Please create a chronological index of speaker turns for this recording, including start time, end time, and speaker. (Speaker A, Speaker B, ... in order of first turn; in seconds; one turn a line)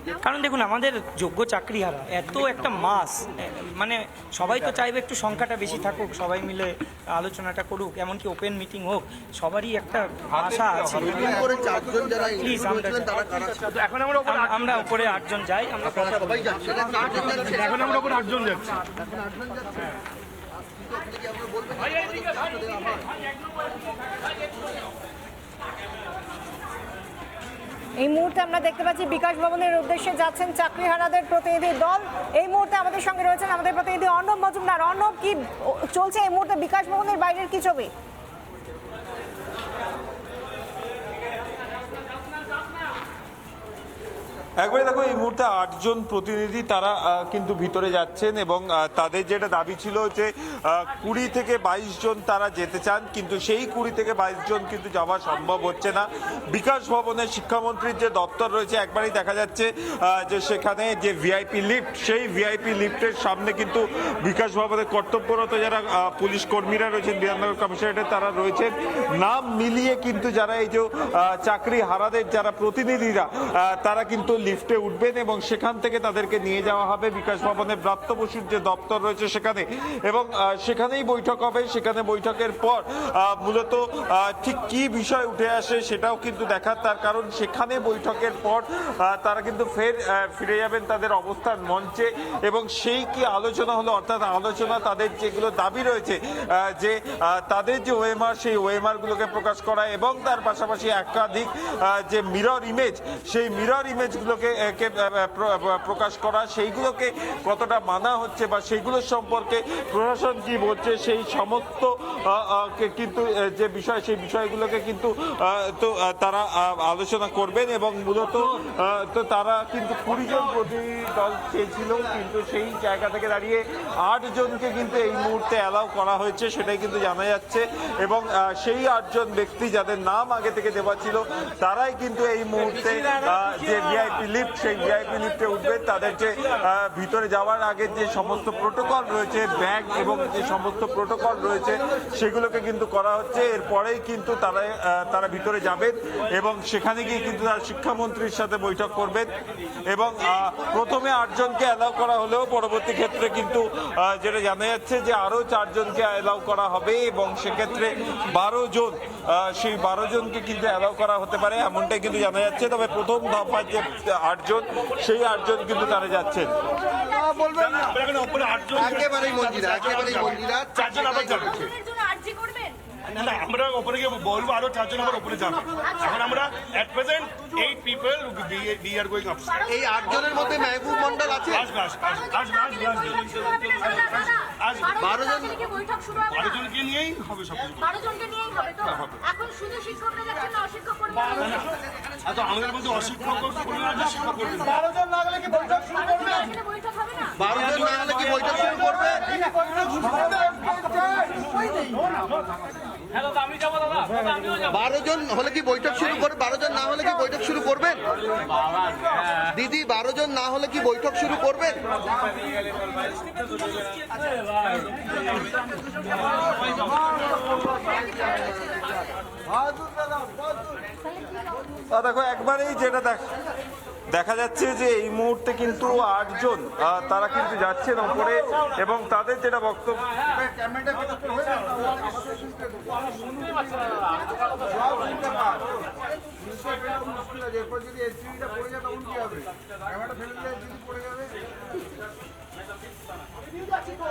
Speaker A: 0.2-11.4
Speaker B: 11.0-13.7
Speaker A: 12.2-16.9
Speaker B: 16.2-19.9
Speaker B: 20.8-23.1
Speaker C: 28.0-37.9
Speaker D: 44.6-149.3
Speaker D: 149.9-166.5
Speaker B: 167.0-168.0
Speaker E: 167.8-171.7
Speaker B: 168.8-171.7
Speaker F: 171.8-172.8
Speaker E: 173.1-179.6
Speaker F: 179.6-180.0
Speaker B: 179.7-181.7
Speaker F: 180.6-180.9
Speaker E: 181.5-185.0
Speaker F: 182.0-186.6
Speaker B: 185.0-185.6
Speaker E: 186.3-188.1
Speaker F: 188.0-191.4
Speaker E: 188.8-189.2
Speaker E: 191.2-191.7
Speaker E: 192.2-194.8
Speaker F: 195.3-197.3
Speaker B: 197.4-201.4
Speaker B: 204.7-208.3
Speaker B: 209.5-212.0
Speaker D: 221.9-223.3
Speaker D: 224.1-230.1
Speaker B: 230.9-232.7
Speaker B: 235.0-235.6
Speaker B: 236.8-239.4
Speaker B: 240.2-241.2